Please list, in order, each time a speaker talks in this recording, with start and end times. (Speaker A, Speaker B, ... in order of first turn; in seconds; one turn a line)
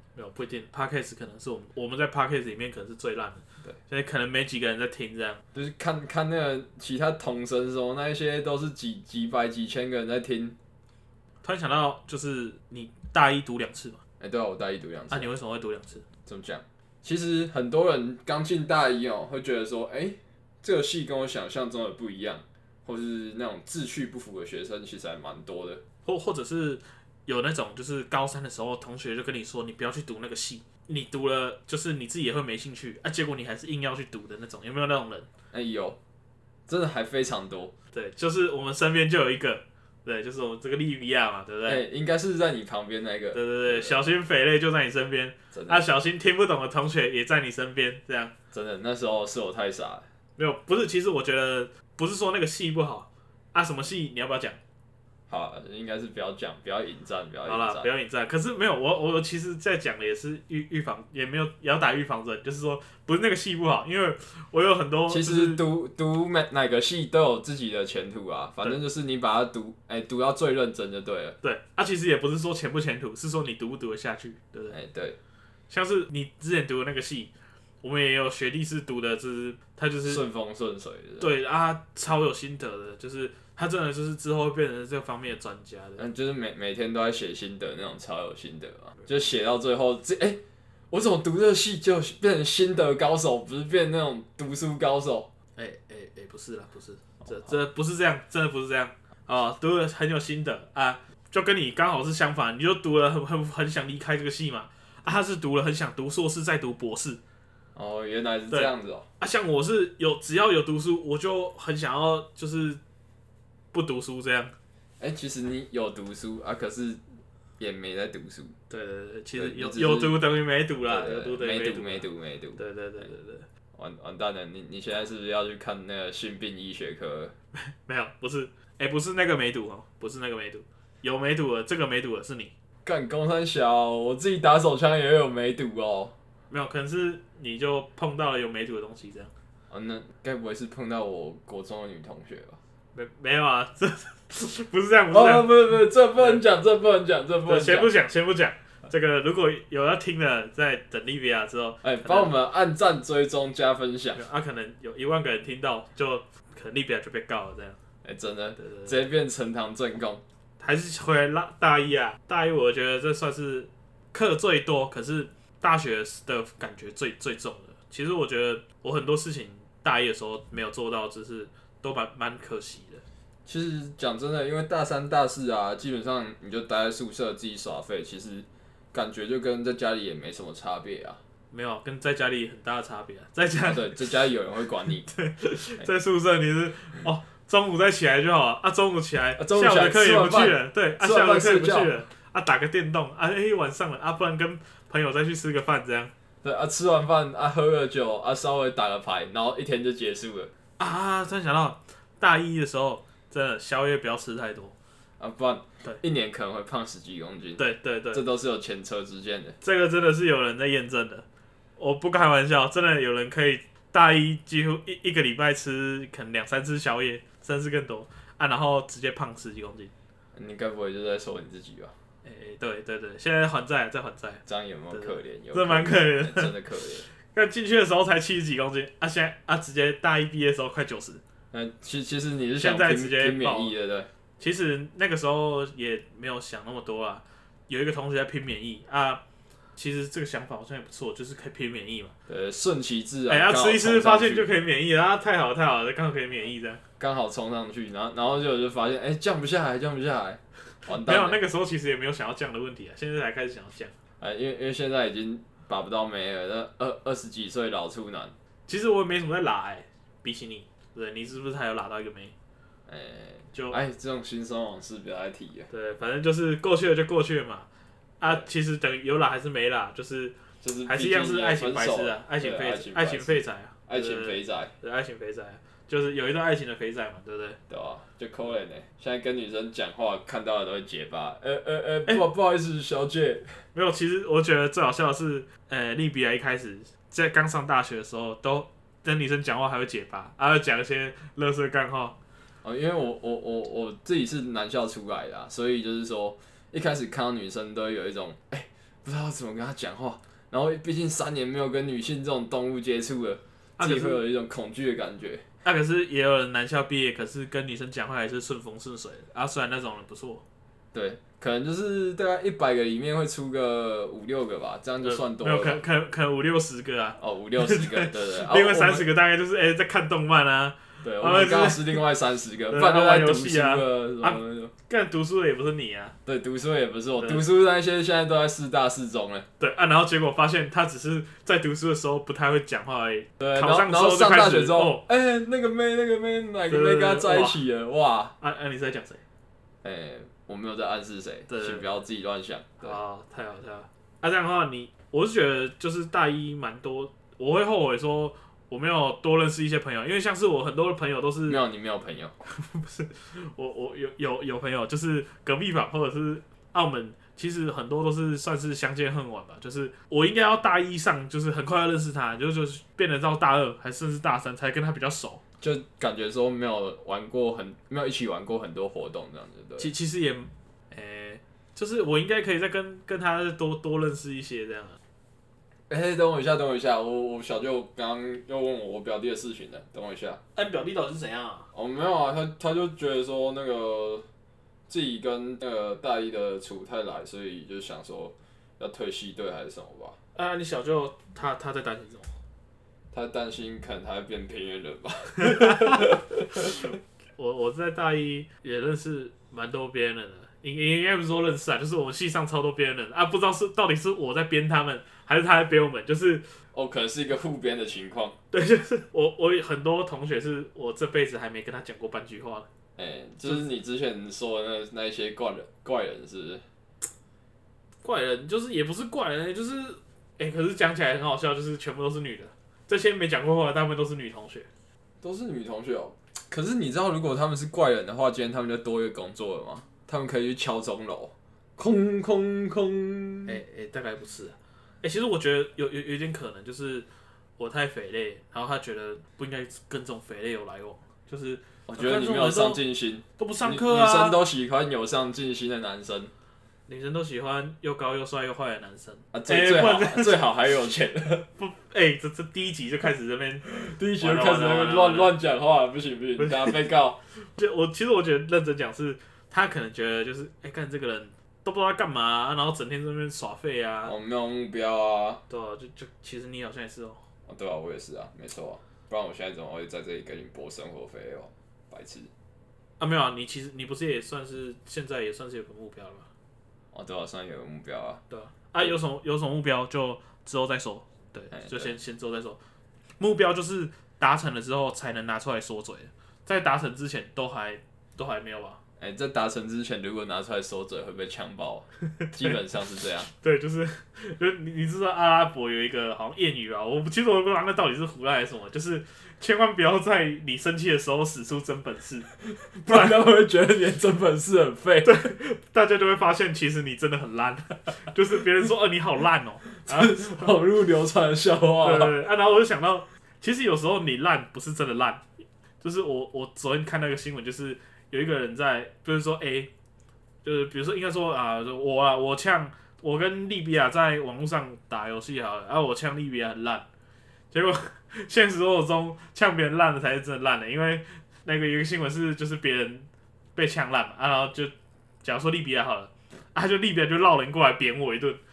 Speaker A: 0.2-5.4
Speaker B: 5.5-10.6
Speaker A: 11.4-14.0
Speaker B: 14.2-15.3
Speaker A: 15.1-16.1
Speaker B: 16.3-25.8
Speaker A: 26.1-35.3
Speaker B: 35.5-36.0
Speaker B: 36.7-37.7
Speaker A: 37.9-41.8
Speaker B: 41.7-44.1
Speaker A: 43.3-48.3
Speaker B: 45.5-45.9
Speaker B: 48.5-50.0
Speaker A: 50.4-54.6
Speaker B: 55.3-57.9
Speaker A: 57.5-65.6
Speaker B: 65.1-71.4
Speaker A: 71.4-74.8
Speaker B: 74.7-75.2
Speaker A: 75.7-77.3
Speaker A: 77.8-80.2
Speaker B: 80.1-81.3
Speaker A: 81.2-86.0
Speaker B: 86.0-90.4
Speaker B: 90.9-95.3
Speaker A: 95.6-107.2
Speaker B: 107.8-109.1
Speaker A: 108.5-112.8
Speaker A: 113.7-114.5
Speaker B: 115.0-117.0
Speaker B: 117.6-118.5
Speaker A: 118.7-123.5
Speaker B: 119.4-120.2
Speaker B: 120.8-122.6
Speaker B: 123.8-127.3
Speaker A: 127.5-132.5
Speaker B: 132.8-136.2
Speaker A: 136.5-139.3
Speaker B: 139.7-142.6
Speaker A: 142.9-145.6
Speaker B: 145.1-147.9
Speaker A: 147.5-152.3
Speaker B: 151.8-154.2
Speaker A: 154.2-157.8
Speaker B: 158.0-160.2
Speaker A: 158.6-159.0
Speaker A: 160.6-173.0
Speaker B: 173.5-181.2
Speaker A: 181.5-184.1
Speaker B: 183.6-185.1
Speaker A: 185.1-196.1
Speaker B: 189.4-191.9
Speaker B: 196.4-200.5
Speaker A: 200.8-204.7
Speaker B: 205.2-209.6
Speaker A: 207.6-208.2
Speaker A: 209.6-211.2
Speaker A: 211.8-219.9
Speaker B: 220.3-221.9
Speaker A: 222.2-226.5
Speaker B: 224.5-227.1
Speaker A: 227.2-231.2
Speaker B: 231.5-234.1
Speaker A: 232.6-233.7
Speaker A: 234.4-239.2
Speaker A: 239.8-242.1
Speaker B: 242.3-244.5
Speaker A: 243.3-246.8
Speaker B: 247.0-251.4
Speaker A: 250.9-253.9
Speaker B: 254.2-258.3
Speaker A: 258.7-262.3
Speaker B: 262.9-265.7
Speaker A: 263.5-263.8
Speaker A: 265.7-267.7
Speaker A: 268.2-277.6
Speaker B: 270.6-274.7
Speaker B: 277.7-283.6
Speaker A: 283.7-292.1
Speaker B: 292.6-305.4
Speaker A: 303.8-304.2
Speaker A: 305.6-310.4
Speaker B: 310.9-315.8
Speaker A: 315.0-322.0
Speaker B: 317.2-319.1
Speaker B: 321.0-324.7
Speaker A: 322.7-326.1
Speaker B: 326.3-329.5
Speaker A: 329.6-335.1
Speaker B: 333.4-338.4
Speaker A: 336.7-337.6
Speaker A: 338.4-339.2
Speaker B: 339.8-342.9
Speaker A: 341.5-341.9
Speaker A: 342.8-351.6
Speaker B: 351.5-352.3
Speaker A: 352.5-365.4
Speaker B: 365.6-369.9
Speaker A: 369.8-375.0
Speaker B: 375.9-380.4
Speaker A: 380.6-381.7
Speaker B: 381.7-384.2
Speaker B: 384.9-390.2
Speaker A: 390.4-392.3
Speaker B: 393.1-396.9
Speaker A: 397.4-406.4
Speaker B: 406.7-408.4
Speaker A: 408.5-412.7
Speaker B: 413.0-416.6
Speaker A: 418.0-424.7
Speaker B: 425.2-433.6
Speaker A: 433.5-437.1
Speaker A: 437.6-442.8
Speaker B: 441.9-446.3
Speaker A: 443.4-444.4
Speaker A: 446.9-450.4
Speaker B: 449.3-451.5
Speaker A: 451.6-455.3
Speaker B: 453.6-457.2
Speaker A: 456.4-456.8
Speaker A: 457.6-464.1
Speaker B: 464.1-465.4
Speaker A: 465.5-467.2
Speaker B: 467.5-472.3
Speaker A: 473.0-476.3
Speaker B: 476.9-478.2
Speaker A: 478.3-482.6
Speaker B: 481.5-481.9
Speaker A: 483.2-488.8
Speaker B: 489.0-493.3
Speaker A: 493.3-502.3
Speaker B: 502.4-505.3
Speaker A: 502.9-503.1
Speaker A: 505.0-510.5
Speaker B: 509.8-512.1
Speaker A: 511.8-515.2
Speaker A: 515.8-519.7
Speaker A: 520.4-526.9
Speaker A: 527.5-534.7
Speaker A: 535.2-538.4